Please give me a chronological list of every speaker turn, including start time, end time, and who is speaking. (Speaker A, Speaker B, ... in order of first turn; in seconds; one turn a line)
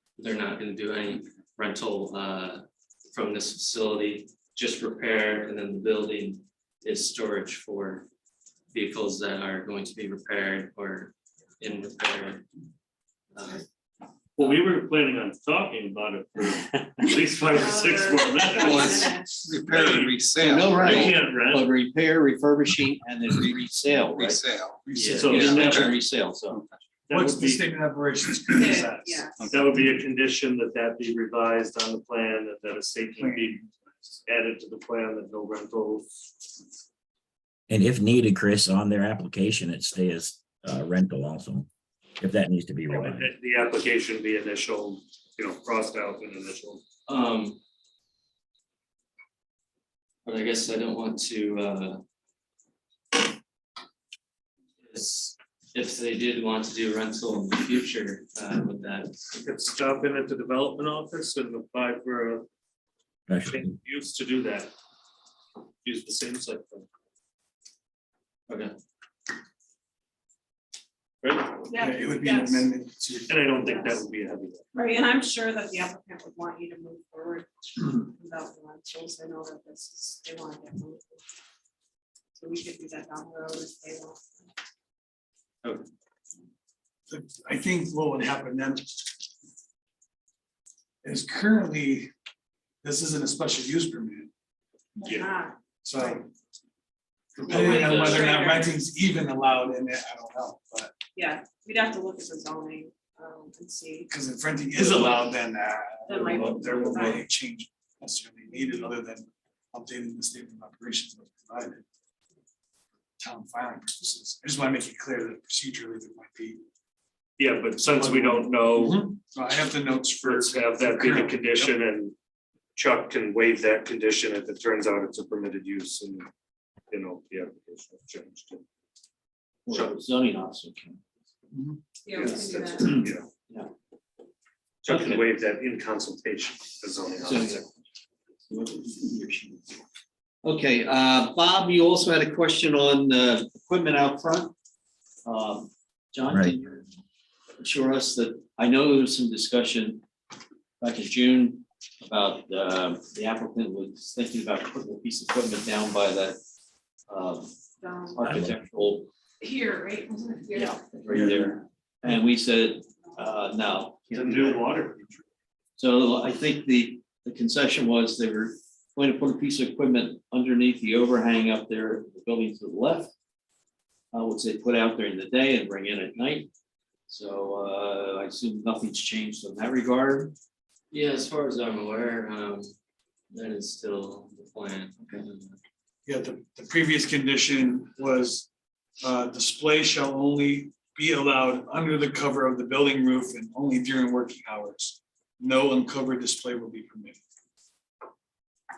Speaker A: 0.2-8.1
Speaker A: 8.7-12.5
Speaker A: 13.3-13.6
Speaker B: 14.3-21.7
Speaker C: 17.5-19.6
Speaker D: 18.3-21.2
Speaker E: 20.4-24.4
Speaker D: 24.0-26.0
Speaker F: 24.8-25.4
Speaker A: 24.9-25.5
Speaker B: 25.1-25.9
Speaker E: 25.3-26.8
Speaker B: 27.1-27.7
Speaker F: 27.1-29.6
Speaker C: 28.5-29.5
Speaker D: 29.4-29.9
Speaker B: 29.5-36.1
Speaker F: 33.1-33.6
Speaker G: 37.7-43.3
Speaker B: 42.9-46.8
Speaker A: 47.1-47.6
Speaker A: 50.2-52.0
Speaker A: 54.9-59.2
Speaker B: 59.3-62.5
Speaker G: 63.3-63.7
Speaker B: 63.5-64.7
Speaker B: 65.8-66.8
Speaker A: 68.5-68.7
Speaker B: 71.2-71.6
Speaker C: 71.6-72.7
Speaker F: 71.7-73.5
Speaker B: 73.3-74.7
Speaker C: 73.6-74.0
Speaker C: 74.7-81.2
Speaker C: 82.3-84.5
Speaker F: 87.1-89.2
Speaker F: 91.0-92.1
Speaker F: 92.8-94.3
Speaker B: 95.0-95.3
Speaker C: 95.0-96.2
Speaker F: 95.8-96.3
Speaker F: 97.3-101.0
Speaker A: 97.5-98.4
Speaker C: 97.5-98.8
Speaker C: 101.2-104.1
Speaker F: 104.1-111.8
Speaker B: 104.7-105.3
Speaker C: 106.0-107.2
Speaker B: 106.3-106.9
Speaker F: 113.2-116.6
Speaker B: 117.4-119.2
Speaker F: 117.9-121.8
Speaker B: 120.2-122.1
Speaker B: 122.8-126.3
Speaker B: 126.9-128.6
Speaker E: 129.7-131.0
Speaker B: 129.7-129.9
Speaker F: 131.5-131.8
Speaker C: 132.0-132.9
Speaker B: 132.1-133.3
Speaker E: 132.2-133.7
Speaker B: 134.8-137.6
Speaker E: 134.8-135.3
Speaker E: 137.2-137.7
Speaker E: 138.4-139.8
Speaker E: 140.4-144.5
Speaker E: 145.2-146.9
Speaker G: 146.3-146.5
Speaker E: 147.6-150.0
Speaker E: 150.8-156.4
Speaker E: 157.1-157.5
Speaker C: 157.8-158.2
Speaker E: 158.1-159.1
Speaker G: 158.2-158.6
Speaker C: 159.4-160.8
Speaker E: 160.5-164.6
Speaker F: 161.1-161.5
Speaker B: 164.1-165.2
Speaker E: 165.8-173.1
Speaker E: 174.1-176.5
Speaker E: 177.1-180.3
Speaker A: 180.9-182.7
Speaker A: 183.3-185.6
Speaker F: 186.1-188.5
Speaker F: 189.0-197.2